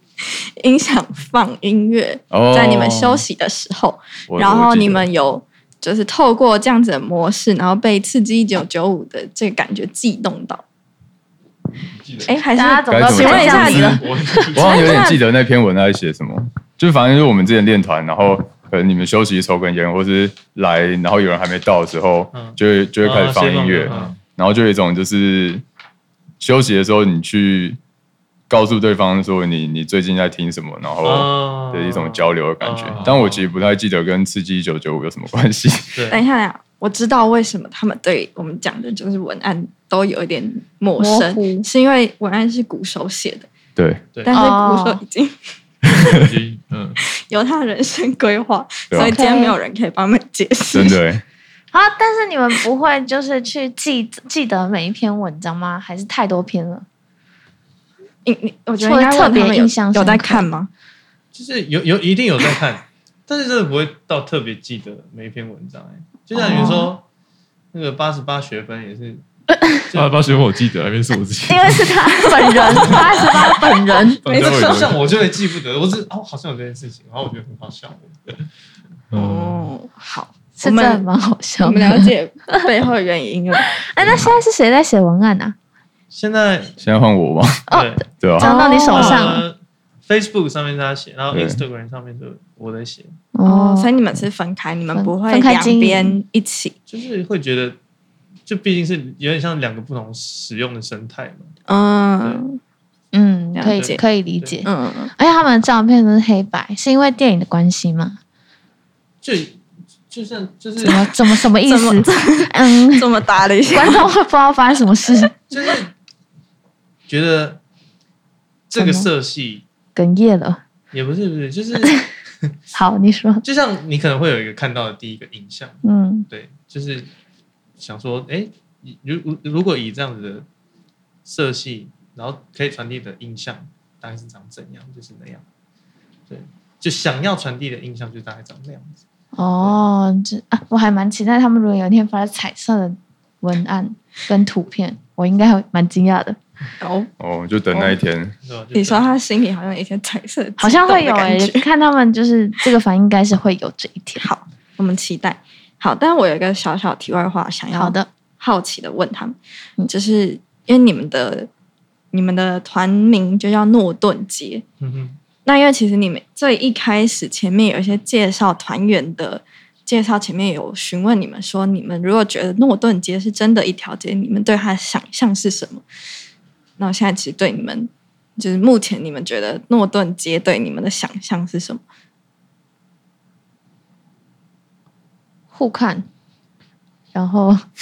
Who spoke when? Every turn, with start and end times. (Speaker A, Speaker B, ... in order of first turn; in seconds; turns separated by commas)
Speaker A: 0.2-10.6, Speaker B: 2.3-3.2, Speaker B: 4.3-5.1, Speaker C: 11.9-12.4, Speaker A: 12.2-15.2, Speaker D: 12.5-14.5, Speaker B: 12.9-25.6, Speaker C: 13.9-14.9, Speaker E: 22.3-24.1, Speaker C: 23.9-24.2, Speaker B: 26.4-27.8, Speaker B: 28.5-36.0, Speaker E: 31.0-33.2, Speaker C: 32.9-33.5, Speaker E: 36.0-36.2, Speaker A: 36.1-43.5, Speaker D: 41.0-41.7, Speaker B: 43.8-44.0, Speaker E: 44.1-44.4, Speaker A: 44.2-45.5, Speaker D: 44.3-45.0, Speaker C: 46.1-47.0, Speaker A: 47.2-51.0, Speaker D: 49.0-49.6, Speaker B: 50.7-51.2, Speaker D: 51.7-56.9, Speaker A: 58.2-60.7, Speaker D: 58.8-60.5, Speaker E: 61.3-67.0, Speaker D: 66.3-66.9, Speaker A: 66.4-66.8, Speaker E: 67.7-69.2, Speaker E: 69.9-70.2, Speaker C: 69.9-72.0, Speaker D: 71.5-74.2, Speaker A: 72.4-73.0, Speaker C: 72.8-73.4, Speaker A: 74.2-74.8, Speaker C: 74.2-75.1, Speaker E: 74.3-78.2, Speaker C: 79.1-79.7, Speaker A: 79.1-81.1, Speaker D: 80.6-82.6, Speaker A: 81.6-83.8, Speaker D: 83.6-85.5, Speaker E: 86.1-86.8, Speaker B: 86.8-87.7, Speaker E: 87.7-93.2, Speaker D: 87.7-89.4, Speaker B: 88.2-88.5, Speaker A: 88.4-89.3, Speaker B: 91.3-91.6, Speaker D: 93.3-93.9, Speaker A: 93.5-96.8, Speaker D: 94.9-96.2, Speaker E: 96.9-97.8, Speaker E: 98.5-101.5, Speaker A: 101.7-102.6, Speaker D: 103.1-108.2, Speaker A: 103.5-104.0, Speaker E: 103.7-104.6, Speaker A: 104.7-105.1, Speaker E: 109.2-111.1, Speaker D: 110.8-113.1, Speaker A: 111.7-114.1, Speaker D: 113.7-115.3, Speaker E: 115.5-115.9, Speaker E: 117.1-117.6, Speaker E: 118.7-119.7, Speaker D: 118.8-119.1, Speaker D: 120.0-120.6, Speaker E: 120.9-122.0, Speaker D: 122.7-123.4, Speaker E: 123.4-127.1, Speaker D: 125.8-126.3, Speaker E: 127.8-130.5, Speaker E: 131.2-135.4, Speaker E: 136.3-139.0, Speaker D: 139.3-146.4, Speaker A: 146.8-147.1, Speaker B: 147.2-148.3, Speaker E: 148.4-149.2, Speaker A: 148.7-151.7, Speaker D: 150.6-154.3, Speaker A: 154.2-159.4, Speaker D: 157.7-158.1, Speaker A: 159.9-161.5, Speaker A: 162.1-164.6, Speaker E: 164.8-165.2, Speaker A: 165.4-175.8, Speaker A: 176.8-181.8, Speaker D: 185.5-186.1, Speaker D: 187.1-187.6